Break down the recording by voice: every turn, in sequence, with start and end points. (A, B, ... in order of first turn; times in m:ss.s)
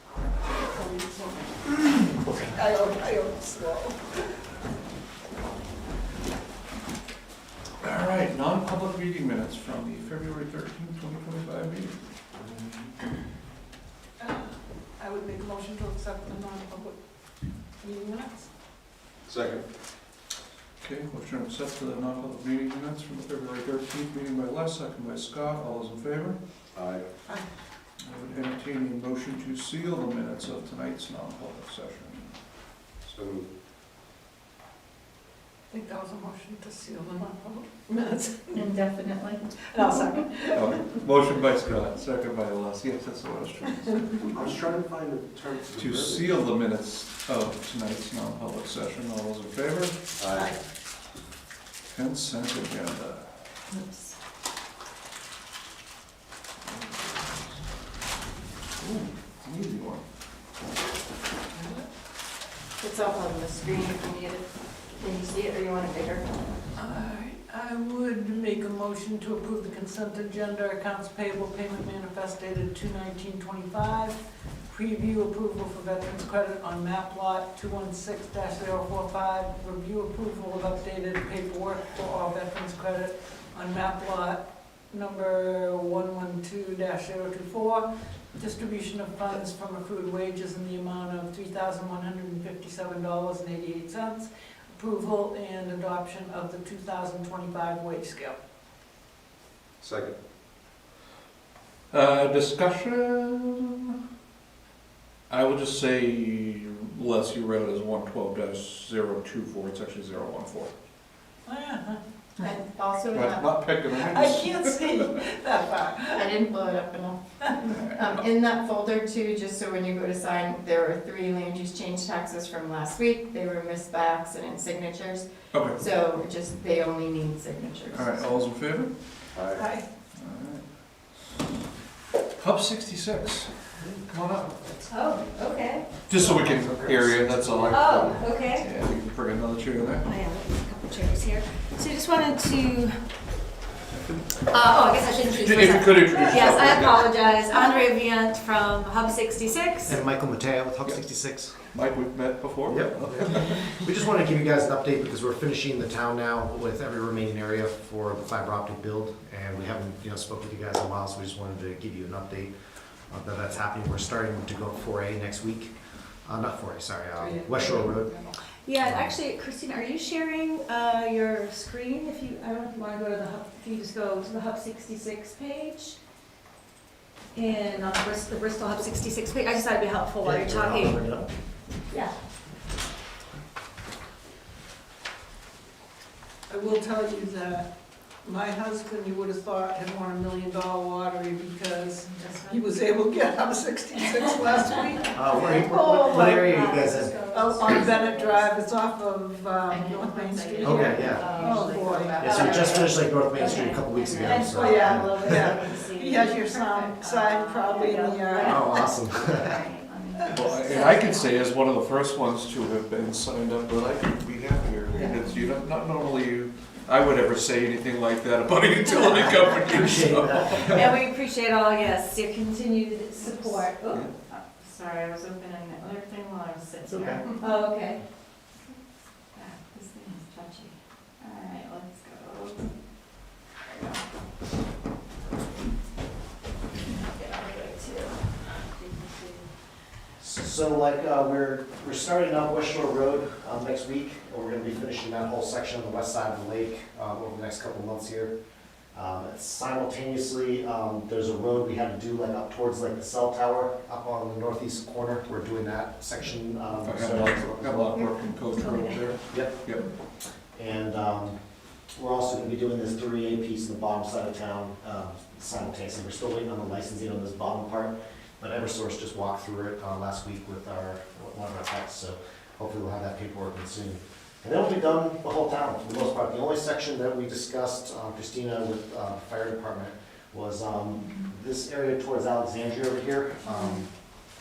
0:00.6-0:04.2 A
0:07.8-0:12.0 B
0:12.4-0:12.8 C
0:14.2-0:17.0 A
0:17.8-0:18.5 A
0:19.2-0:19.6 C
0:20.8-0:26.4 B
0:26.7-0:27.0 C
0:28.0-0:32.4 B
0:33.0-0:33.5 C
0:35.7-0:38.7 A
0:38.5-0:40.2 D
0:39.7-0:40.8 A
0:40.5-0:44.3 B
0:44.3-0:46.4 C
0:45.7-0:50.0 B
0:50.2-0:50.5 C
0:50.3-0:50.6 A
0:51.9-0:53.2 B
0:53.7-0:54.1 D
0:56.6-0:57.6 B
0:58.8-1:00.0 B
1:01.5-1:01.8 A
1:02.8-1:06.2 D
1:06.7-1:14.2 A
1:14.7-1:38.4 A
1:39.8-1:40.2 C
1:41.9-1:43.9 B
1:45.3-1:50.7 B
1:51.4-1:52.0 A
1:52.4-1:53.5 D
1:53.1-1:55.0 B
1:53.9-1:56.3 A
1:56.1-2:08.4 D
1:57.7-1:58.0 B
2:05.5-2:05.8 B
2:07.9-2:08.9 B
2:09.3-2:09.6 C
2:09.5-2:09.8 A
2:10.2-2:10.6 B
2:12.4-2:13.5 B
2:14.0-2:14.7 B
2:14.9-2:16.0 E
2:16.1-2:20.1 B
2:16.1-2:18.4 C
2:17.7-2:18.7 E
2:20.0-2:22.9 E
2:23.9-2:24.4 B
2:24.4-2:30.0 E
2:25.3-2:27.1 B
2:29.8-2:31.6 F
2:31.7-2:33.7 B
2:32.6-2:42.5 F
2:43.1-2:45.7 F
2:46.2-2:48.1 F
2:47.2-2:48.4 A
2:48.6-2:56.0 E
2:48.8-2:49.2 F
2:57.3-3:01.0 E
3:00.2-3:01.3 F
3:06.5-3:07.7 A
3:08.2-3:16.6 A
3:12.1-3:12.5 D
3:14.8-3:18.5 E
3:15.1-3:17.1 F
3:17.2-3:22.7 A
3:19.7-3:31.1 D
3:20.6-3:21.3 F
3:21.3-3:22.7 E
3:22.2-3:25.6 F
3:23.3-3:29.4 E
3:24.2-3:28.6 A
3:28.4-3:29.5 F
3:30.2-3:30.6 A
3:30.3-3:40.9 B
3:30.6-3:31.4 E
3:34.9-3:35.2 E
3:39.6-3:41.0 F
3:40.6-3:44.1 E
3:44.3-3:47.7 D
3:46.9-3:47.2 F
3:47.4-3:48.0 E
3:49.3-3:52.7 D
3:53.6-3:54.0 D
3:57.1-3:58.2 D
3:57.2-3:58.0 E
3:58.8-3:59.3 D
3:58.9-3:59.1 E
4:00.2-4:08.3 F
4:08.9-4:18.0 F
4:16.7-4:19.8 B
4:18.5-4:19.2 E
4:19.3-4:19.6 F
4:20.6-4:21.4 F
4:21.9-4:43.8 F
4:43.5-4:43.8 E